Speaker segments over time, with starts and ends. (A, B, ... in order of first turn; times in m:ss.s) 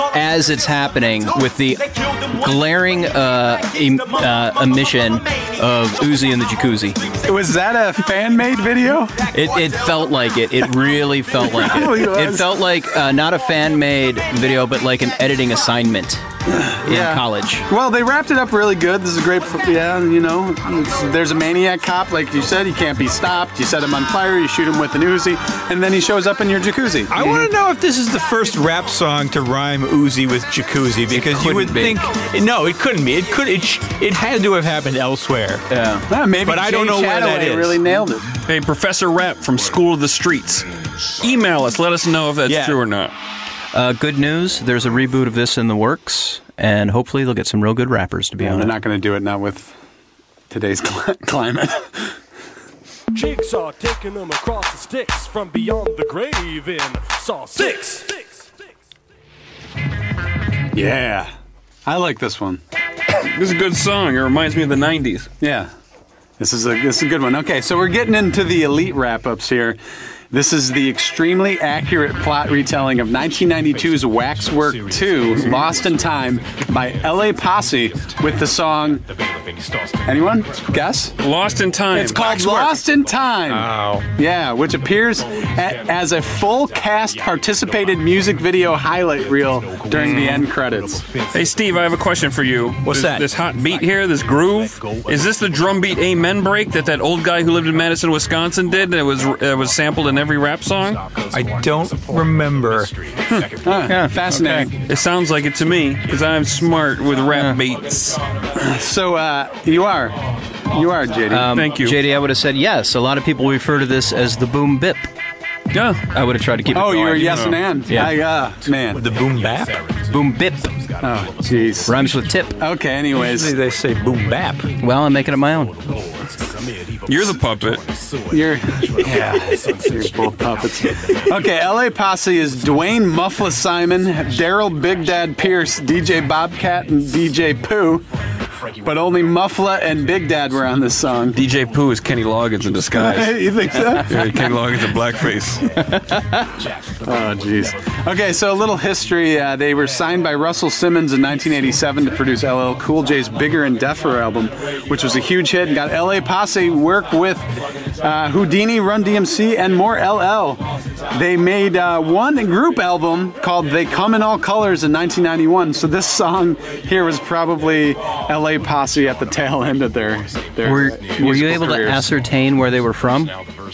0:00.1-0:07.0 A
0:07.2-0:09.2 B
0:09.3-0:16.2 A
0:11.4-0:12.6 B
0:16.5-0:27.3 B
0:16.8-0:17.7 A
0:27.1-0:35.7 C
0:31.1-0:32.0 A
0:35.7-0:36.1 A
0:36.1-0:38.3 B
0:36.4-0:37.8 C
0:38.5-0:40.6 D
0:41.2-0:43.1 D
0:42.5-0:42.8 C
0:43.7-0:48.7 A
0:48.4-0:49.7 B
0:50.5-0:52.1 B
0:53.1-0:58.4 E
1:00.7-1:01.3 B
1:01.8-1:02.6 B
1:03.2-1:05.3 D
1:05.4-1:05.7 B
1:06.4-1:09.8 B
1:10.3-1:19.0 B
1:15.3-1:15.6 D
1:20.0-1:21.1 B
1:21.2-1:22.8 D
1:21.9-1:31.0 B
1:23.5-1:24.1 C
1:29.9-1:30.5 D
1:31.3-1:41.1 D
1:32.8-1:33.3 C
1:41.3-1:42.9 C
1:43.3-1:44.7 B
1:43.8-1:44.7 A
1:44.7-1:48.2 D
1:47.3-1:47.6 A
1:48.5-1:51.5 B
1:51.3-1:55.0 A
1:51.5-1:52.0 D
1:55.7-1:56.0 D
1:56.1-1:58.2 A
1:56.7-1:59.0 B
1:57.1-1:57.6 D
1:58.9-1:59.8 C
2:00.1-2:00.8 A
2:01.0-2:03.5 B
2:01.8-2:02.6 A
2:03.1-2:04.8 C
2:04.8-2:06.0 A
2:07.1-2:07.8 D
2:08.3-2:18.0 B
2:18.8-2:21.4 B
2:21.3-2:25.8 D
2:22.9-2:24.7 B
2:25.8-2:26.5 A
2:27.0-2:37.4 B
2:38.0-2:52.1 B
2:50.6-2:53.4 A